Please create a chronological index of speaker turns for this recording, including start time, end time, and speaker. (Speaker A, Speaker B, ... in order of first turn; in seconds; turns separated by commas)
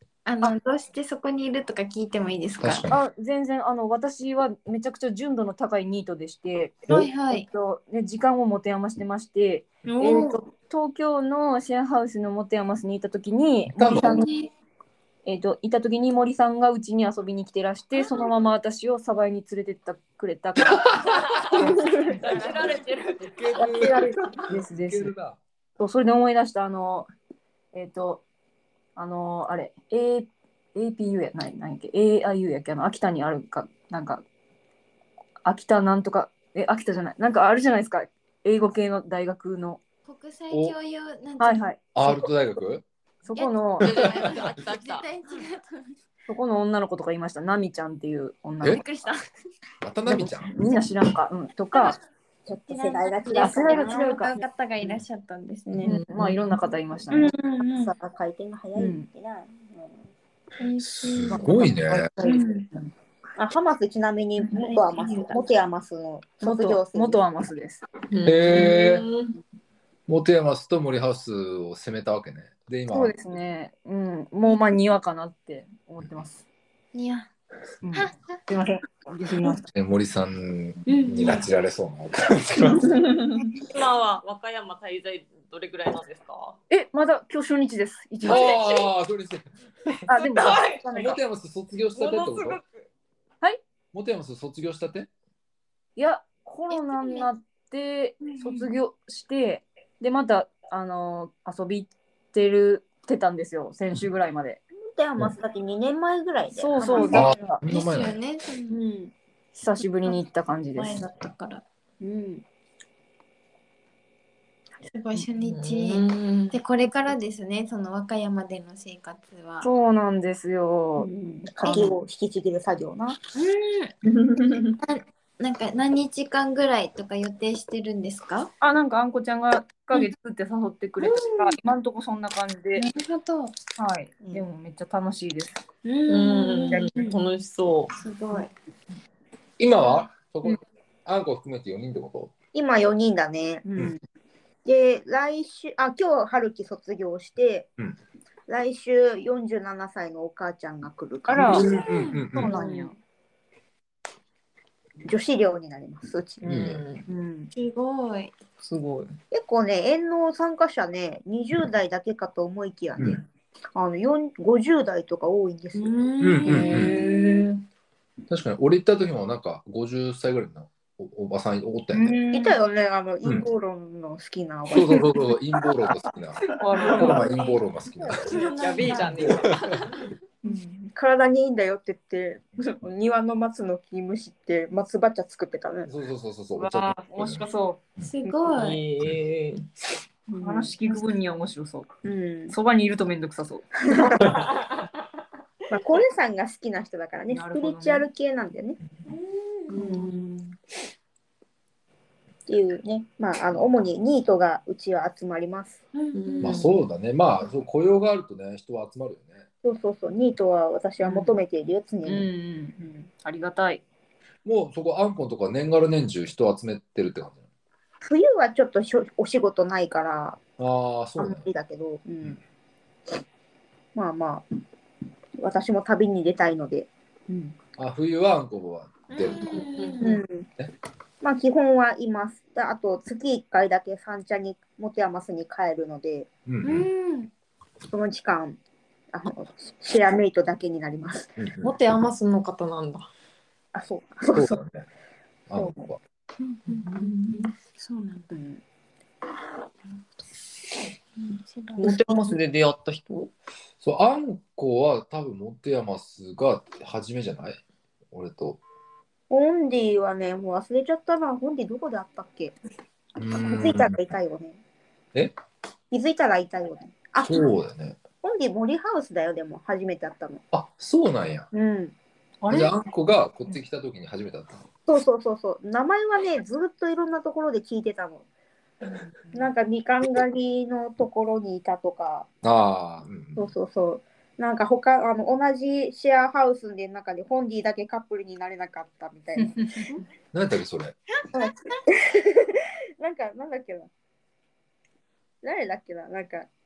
Speaker A: 0.2-2.8, Speaker B: 2.6-3.0, Speaker C: 2.9-14.3, Speaker A: 6.9-7.5, Speaker A: 9.8-10.4, Speaker B: 13.8-14.2, Speaker A: 13.9-14.5, Speaker C: 15.2-21.0, Speaker D: 21.1-23.7, Speaker C: 21.5-22.2, Speaker A: 22.2-22.7, Speaker B: 23.2-25.4, Speaker E: 23.6-24.2, Speaker C: 24.4-25.1, Speaker C: 25.8-27.1, Speaker C: 27.7-28.2, Speaker C: 28.9-34.2, Speaker C: 35.4-39.8, Speaker A: 40.0-41.7, Speaker B: 40.5-40.8, Speaker C: 41.4-42.3, Speaker B: 41.9-42.8, Speaker C: 43.2-43.9, Speaker A: 43.3-46.0, Speaker B: 43.8-44.5, Speaker D: 43.8-45.0, Speaker C: 46.3-49.1, Speaker A: 48.6-49.2, Speaker B: 49.8-50.5, Speaker C: 50.0-52.0, Speaker E: 52.5-54.1, Speaker A: 52.7-55.9, Speaker C: 53.3-54.4, Speaker C: 55.8-57.3, Speaker D: 55.9-56.4, Speaker A: 57.1-57.9, Speaker E: 57.8-60.0, Speaker C: 58.8-59.1, Speaker A: 60.6-61.5, Speaker B: 60.8-62.1, Speaker C: 61.3-62.6, Speaker A: 62.3-62.6, Speaker E: 63.4-67.2, Speaker A: 64.4-65.5, Speaker C: 66.4-67.8, Speaker D: 68.1-69.3, Speaker B: 68.2-69.0, Speaker B: 70.1-73.1, Speaker C: 72.9-76.4, Speaker A: 76.9-77.3, Speaker C: 77.8-79.7, Speaker A: 77.9-78.4, Speaker B: 79.7-83.1, Speaker A: 80.8-81.4, Speaker D: 83.7-86.6, Speaker C: 86.7-88.5, Speaker B: 88.2-90.0, Speaker D: 88.3-88.8, Speaker C: 90.1-91.2, Speaker D: 90.2-91.0, Speaker B: 90.9-92.6, Speaker D: 91.9-92.8, Speaker B: 93.9-95.1, Speaker C: 96.0-104.6, Speaker A: 96.7-97.3, Speaker A: 98.2-98.6, Speaker E: 104.8-107.3, Speaker C: 106.5-107.6, Speaker A: 106.8-108.8, Speaker B: 107.1-108.2, Speaker E: 108.7-109.1, Speaker C: 109.5-111.0, Speaker A: 110.8-111.6, Speaker E: 112.0-112.4, Speaker A: 114.8-119.7, Speaker D: 115.4-116.5, Speaker C: 119.6-121.1, Speaker E: 121.0-123.2, Speaker C: 121.6-121.9, Speaker A: 123.3-124.0, Speaker C: 124.2-124.7, Speaker A: 124.8-128.5, Speaker C: 128.6-132.9, Speaker A: 131.0-131.6, Speaker A: 132.8-133.6, Speaker C: 133.8-135.6, Speaker A: 135.8-137.1, Speaker D: 136.1-138.0, Speaker A: 138.0-138.5, Speaker B: 139.6-142.3, Speaker E: 142.5-143.8, Speaker C: 143.6-143.9, Speaker E: 144.6-147.7, Speaker E: 148.5-152.9, Speaker C: 151.3-151.7, Speaker B: 151.4-152.5, Speaker A: 151.7-152.2, Speaker C: 152.4-152.9, Speaker E: 155.1-156.4, Speaker D: 156.4-157.0, Speaker B: 156.5-156.8, Speaker C: 157.1-157.5, Speaker A: 157.5-158.4, Speaker D: 158.6-159.1, Speaker E: 159.3-163.2, Speaker B: 163.0-163.2, Speaker E: 163.7-166.0, Speaker A: 165.8-167.2, Speaker B: 166.2-167.0, Speaker D: 166.4-167.5, Speaker C: 166.5-167.0, Speaker B: 168.3-172.2, Speaker C: 171.9-172.5, Speaker E: 172.3-175.9, Speaker B: 174.7-176.4, Speaker C: 176.4-177.2, Speaker E: 176.9-178.4, Speaker B: 176.9-178.4, Speaker A: 177.2-177.5, Speaker A: 178.2-179.5, Speaker D: 178.3-179.9, Speaker B: 179.0-179.8, Speaker E: 180.4-185.9, Speaker B: 185.8-187.4, Speaker C: 186.6-187.8, Speaker A: 188.0-188.8, Speaker D: 188.5-189.7, Speaker E: 190.3-191.0, Speaker C: 190.4-191.9, Speaker E: 192.0-192.5, Speaker C: 192.5-194.1, Speaker E: 193.9-194.4, Speaker E: 195.7-198.8, Speaker C: 197.3-198.1, Speaker A: 199.1-199.9, Speaker C: 199.7-200.5, Speaker E: 199.7-200.1, Speaker E: 202.5-205.8, Speaker A: 205.9-206.7, Speaker D: 206.1-206.8, Speaker B: 206.4-209.4, Speaker E: 209.6-213.1, Speaker C: 211.0-211.3, Speaker C: 212.0-213.8, Speaker B: 214.4-217.4, Speaker E: 218.0-220.4, Speaker B: 220.6-221.5, Speaker E: 221.2-222.4, Speaker E: 223.9-224.4, Speaker E: 225.4-227.6, Speaker B: 227.8-229.7, Speaker A: 229.1-230.2, Speaker D: 229.6-230.2, Speaker E: 230.0-230.4, Speaker E: 231.2-236.3, Speaker B: 236.4-236.9, Speaker A: 236.6-237.3, Speaker E: 237.9-238.6, Speaker E: 239.1-241.3, Speaker B: 241.4-241.7, Speaker D: 241.6-243.1, Speaker E: 243.7-244.6, Speaker B: 244.3-244.8, Speaker B: 245.5-246.0, Speaker A: 246.4-248.3, Speaker E: 248.3-248.6, Speaker A: 251.2-252.1, Speaker D: 251.8-253.3, Speaker B: 253.8-257.6, Speaker B: 258.1-258.6, Speaker E: 259.3-262.5, Speaker B: 263.2-263.9, Speaker E: 263.5-264.6, Speaker E: 265.9-267.4, Speaker B: 267.2-268.0, Speaker E: 268.2-270.4, Speaker B: 270.5-271.5, Speaker E: 271.5-271.9, Speaker C: 272.4-272.7, Speaker B: 272.5-274.6, Speaker E: 274.9-278.2, Speaker E: 279.3-282.3, Speaker B: 282.4-283.5, Speaker E: 283.3-289.9, Speaker C: 289.4-289.9, Speaker B: 290.3-290.9, Speaker A: 291.2-291.8, Speaker E: 291.3-293.9, Speaker E: 295.4-296.5